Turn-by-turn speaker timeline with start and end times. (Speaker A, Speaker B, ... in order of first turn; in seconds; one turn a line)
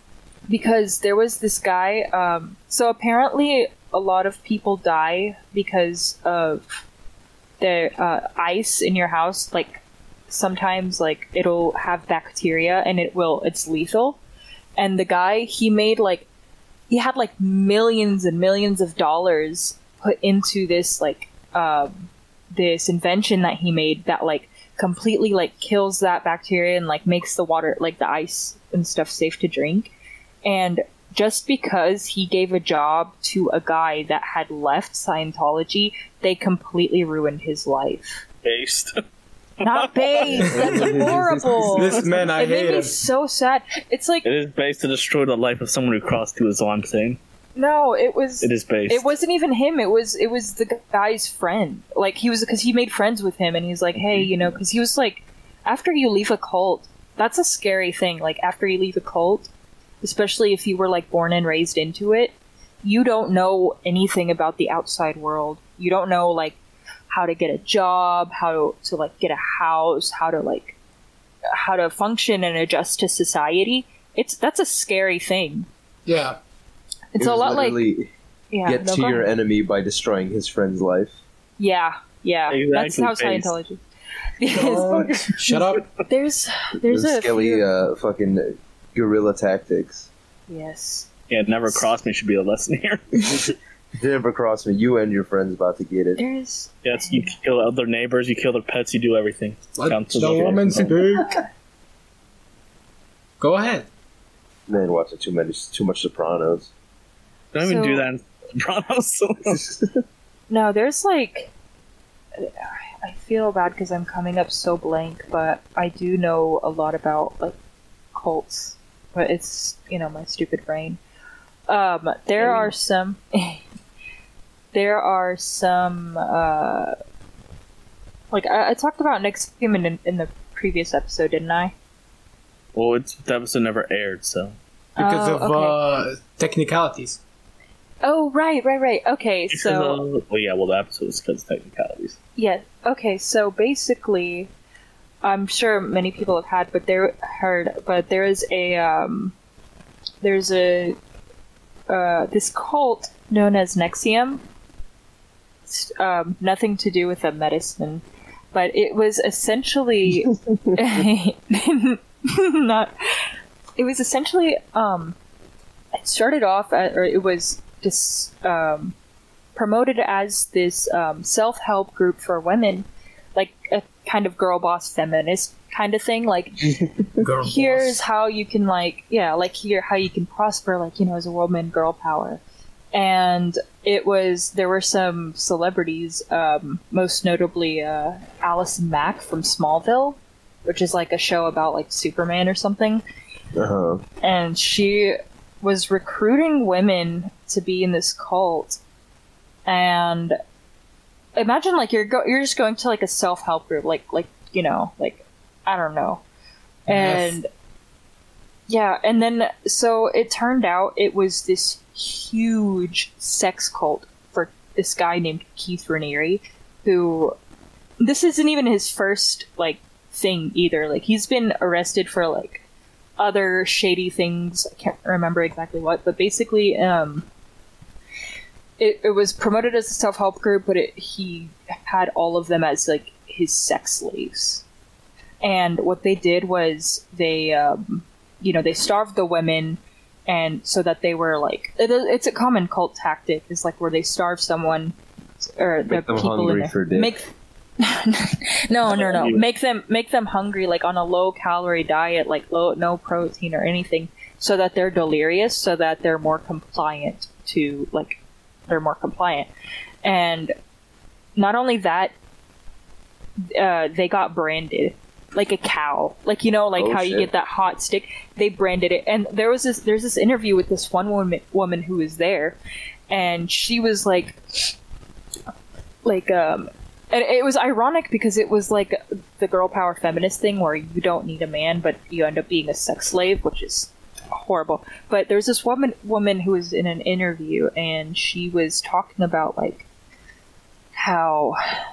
Speaker A: 0.5-6.7
Speaker A: 7.6-14.2
Speaker A: 14.8-16.3
Speaker A: 16.9-29.9
Speaker A: 30.4-38.2
Speaker B: 38.4-39.0
Speaker B: 39.6-41.2
Speaker A: 39.6-44.3
Speaker C: 40.3-41.7
Speaker D: 40.5-41.1
Speaker D: 41.7-43.0
Speaker B: 44.2-47.2
Speaker A: 47.6-59.5
Speaker B: 48.4-49.1
Speaker B: 54.0-54.3
Speaker A: 60.0-66.6
Speaker A: 67.1-70.8
Speaker A: 71.5-75.7
Speaker D: 76.1-76.4
Speaker A: 77.1-77.8
Speaker C: 77.2-78.1
Speaker A: 78.5-79.3
Speaker C: 78.7-81.2
Speaker A: 81.6-83.8
Speaker B: 82.5-83.5
Speaker A: 84.4-87.6
Speaker D: 84.5-85.8
Speaker C: 86.9-90.1
Speaker A: 90.5-91.1
Speaker B: 91.3-93.5
Speaker C: 93.2-96.2
Speaker A: 96.2-97.3
Speaker B: 96.8-101.0
Speaker D: 99.8-101.4
Speaker A: 100.8-101.5
Speaker D: 103.4-103.9
Speaker C: 104.7-106.7
Speaker B: 107.5-109.7
Speaker A: 107.6-108.1
Speaker A: 110.5-111.5
Speaker A: 112.4-117.5
Speaker A: 118.1-121.0
Speaker A: 121.7-123.6
Speaker C: 122.4-122.8
Speaker A: 124.7-127.0
Speaker A: 128.3-131.7
Speaker B: 132.8-134.6
Speaker A: 135.0-135.8
Speaker D: 135.0-137.2
Speaker A: 138.0-140.0
Speaker B: 139.5-142.2
Speaker A: 142.4-144.5
Speaker A: 145.2-149.3
Speaker A: 150.2-151.0
Speaker A: 151.9-154.4
Speaker A: 155.7-162.9
Speaker A: 163.8-165.2
Speaker A: 166.0-168.9
Speaker A: 169.6-176.8
Speaker D: 177.2-178.0
Speaker A: 177.4-182.4
Speaker A: 182.9-193.0
Speaker C: 193.5-194.0
Speaker A: 194.2-198.8
Speaker A: 199.7-200.4
Speaker A: 201.3-206.2
Speaker A: 206.9-207.5
Speaker D: 206.9-207.4
Speaker A: 208.7-217.4
Speaker A: 218.0-222.6
Speaker A: 223.2-227.3
Speaker A: 228.8-234.6
Speaker A: 235.4-259.5
Speaker C: 245.9-247.2
Speaker B: 248.9-249.4
Speaker A: 260.0-260.6
Speaker A: 261.4-262.1
Speaker A: 263.4-272.6
Speaker C: 266.8-267.3
Speaker A: 273.1-274.7
Speaker A: 276.0-289.9
Speaker A: 291.0-291.6